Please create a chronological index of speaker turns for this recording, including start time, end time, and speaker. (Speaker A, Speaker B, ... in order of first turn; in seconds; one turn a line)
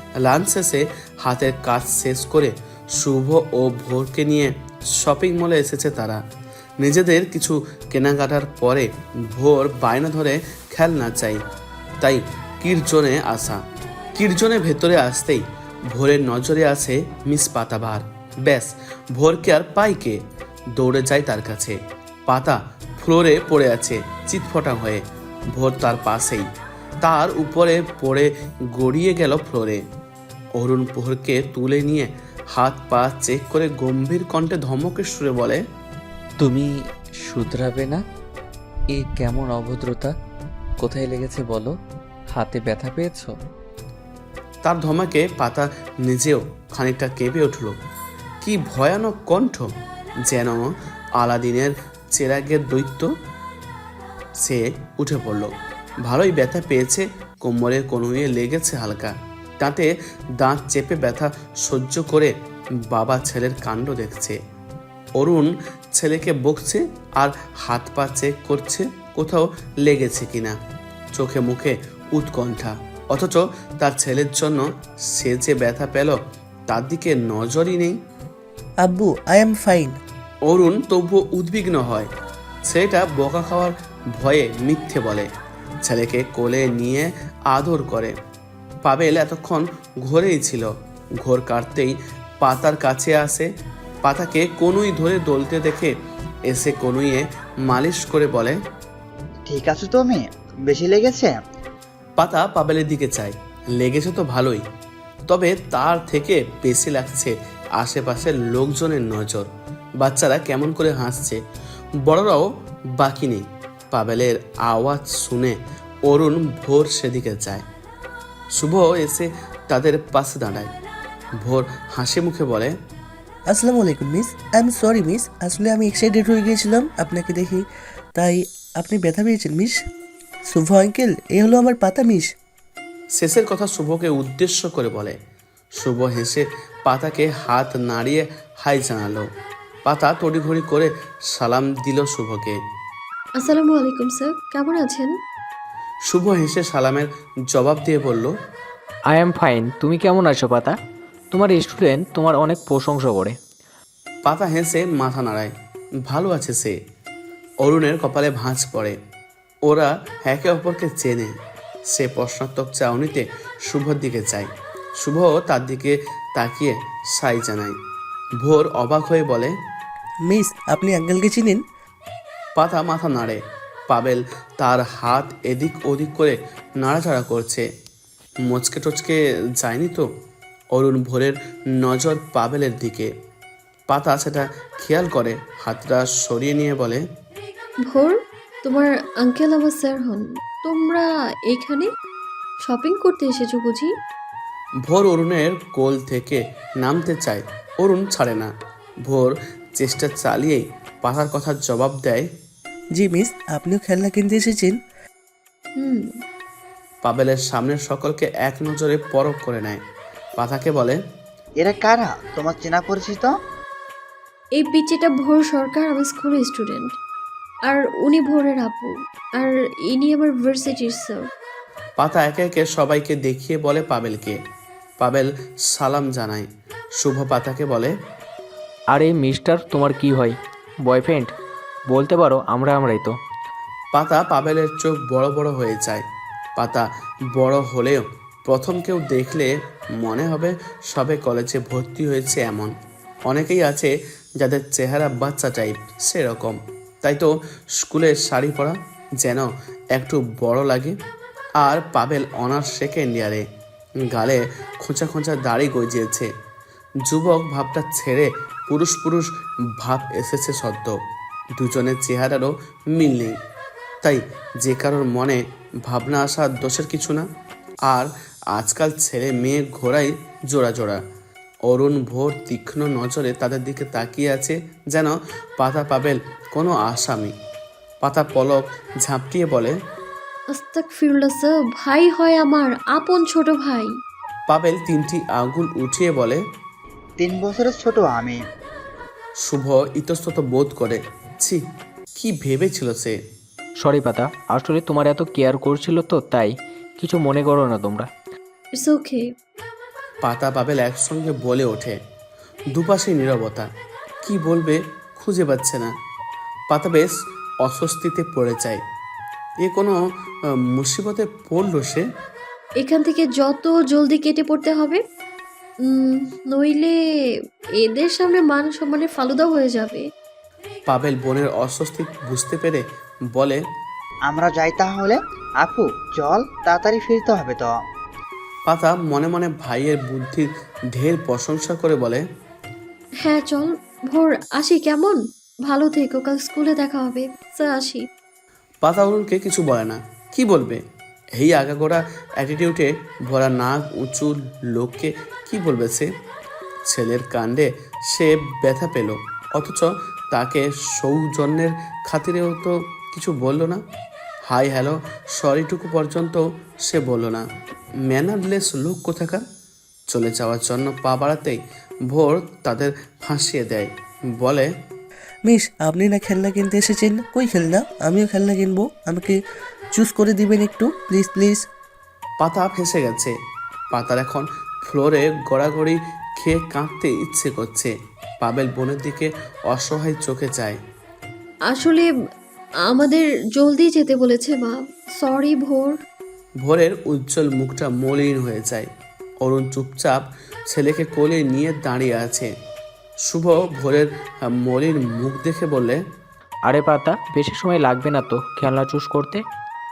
Speaker A: 0.2-6.2
Speaker A: 6.8-11.4
Speaker A: 12.0-13.6
Speaker A: 14.1-26.5
Speaker A: 27.0-29.8
Speaker A: 30.5-35.6
Speaker B: 36.4-38.0
Speaker B: 38.9-40.1
Speaker B: 40.8-41.7
Speaker B: 42.3-43.3
Speaker A: 44.6-47.8
Speaker A: 48.4-49.7
Speaker A: 50.2-53.1
Speaker A: 54.4-62.3
Speaker A: 62.9-64.4
Speaker A: 65.2-70.6
Speaker A: 71.1-78.0
Speaker C: 78.8-80.0
Speaker A: 80.4-82.1
Speaker A: 82.6-85.3
Speaker A: 85.8-88.2
Speaker A: 88.8-93.5
Speaker A: 94.0-98.6
Speaker D: 99.5-101.4
Speaker A: 102.2-104.7
Speaker A: 105.3-111.4
Speaker A: 112.0-117.7
Speaker A: 118.5-120.7
Speaker A: 121.4-122.7
Speaker C: 123.5-129.8
Speaker C: 130.4-132.3
Speaker A: 133.1-135.2
Speaker A: 135.8-139.3
Speaker A: 139.8-142.6
Speaker E: 143.4-145.1
Speaker A: 146.0-148.3
Speaker F: 149.1-150.8
Speaker F: 151.3-153.4
Speaker A: 154.2-155.5
Speaker A: 156.0-156.8
Speaker A: 157.6-159.0
Speaker A: 159.6-161.4
Speaker A: 161.9-167.8
Speaker A: 168.4-169.5
Speaker C: 170.2-171.6
Speaker A: 172.6-177.7
Speaker A: 178.4-180.1
Speaker A: 180.7-183.1
Speaker A: 183.9-187.0
Speaker E: 187.9-191.9
Speaker E: 192.6-193.9
Speaker A: 194.8-198.5
Speaker A: 199.0-202.3
Speaker C: 202.9-204.8
Speaker E: 205.8-206.2
Speaker A: 207.0-209.8
Speaker A: 210.4-211.0
Speaker D: 211.6-213.3
Speaker E: 214.6-216.9
Speaker E: 217.7-221.3
Speaker A: 222.0-224.4
Speaker A: 225.0-227.9
Speaker F: 228.9-231.3
Speaker F: 231.9-233.2
Speaker A: 233.9-236.0
Speaker A: 236.6-242.7
Speaker A: 243.2-250.9
Speaker A: 251.6-253.4
Speaker A: 254.1-256.3
Speaker A: 257.0-261.0
Speaker A: 261.5-263.4
Speaker A: 264.0-267.3
Speaker A: 267.9-271.0
Speaker A: 271.6-277.3
Speaker A: 278.0-279.8
Speaker E: 280.5-283.9
Speaker A: 284.5-286.4
Speaker D: 287.2-288.4
Speaker A: 289.4-293.2
Speaker F: 293.8-298.1
Speaker E: 298.7-299.3
Speaker A: 300.2-302.0
Speaker A: 302.7-303.7
Speaker A: 304.2-305.9
Speaker A: 306.7-308.8
Speaker A: 309.6-312.1
Speaker E: 312.8-315.0
Speaker E: 315.8-316.9
Speaker E: 317.8-320.1
Speaker A: 320.9-323.6
Speaker D: 324.3-327.7
Speaker A: 328.7-332.2
Speaker E: 333.2-338.1
Speaker A: 338.8-340.8
Speaker A: 341.3-346.1
Speaker A: 346.9-353.8
Speaker A: 354.4-357.4
Speaker A: 358.1-359.4
Speaker A: 360.1-364.7
Speaker C: 365.4-369.4
Speaker C: 369.9-371.6
Speaker A: 372.4-373.4
Speaker A: 373.9-380.8
Speaker E: 381.7-382.1
Speaker E: 382.9-386.0
Speaker A: 386.6-388.9
Speaker A: 389.4-392.5
Speaker A: 393.2-396.0
Speaker F: 396.6-399.4